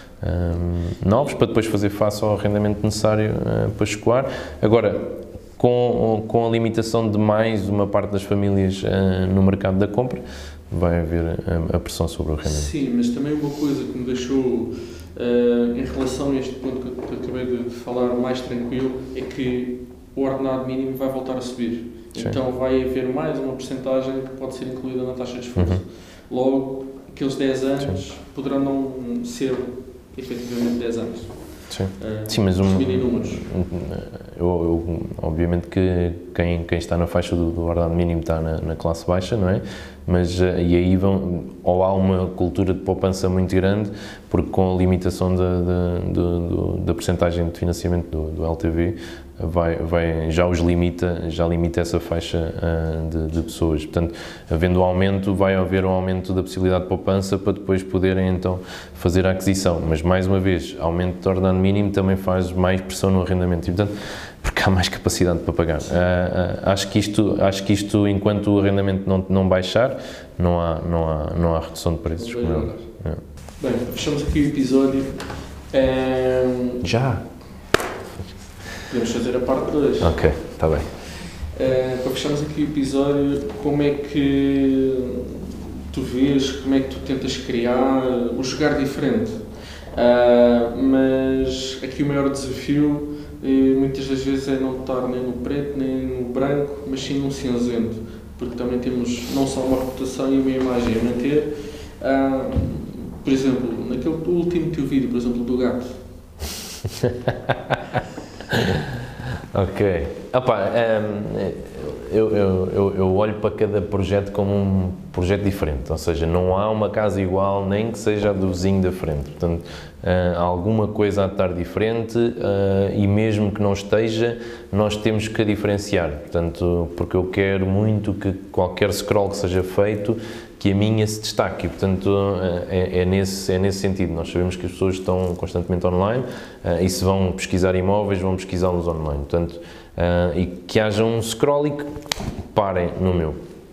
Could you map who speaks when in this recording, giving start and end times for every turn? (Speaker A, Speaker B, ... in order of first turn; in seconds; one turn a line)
Speaker A: 0.2-12.7
Speaker B: 12.4-33.5
Speaker A: 25.6-25.8
Speaker A: 31.7-63.9
Speaker A: 64.4-73.2
Speaker B: 72.2-72.9
Speaker B: 73.6-76.8
Speaker A: 76.8-77.3
Speaker B: 78.8-80.2
Speaker A: 80.0-80.9
Speaker B: 81.1-106.0
Speaker A: 107.0-107.8
Speaker A: 108.5-108.9
Speaker A: 109.5-141.9
Speaker A: 142.5-143.4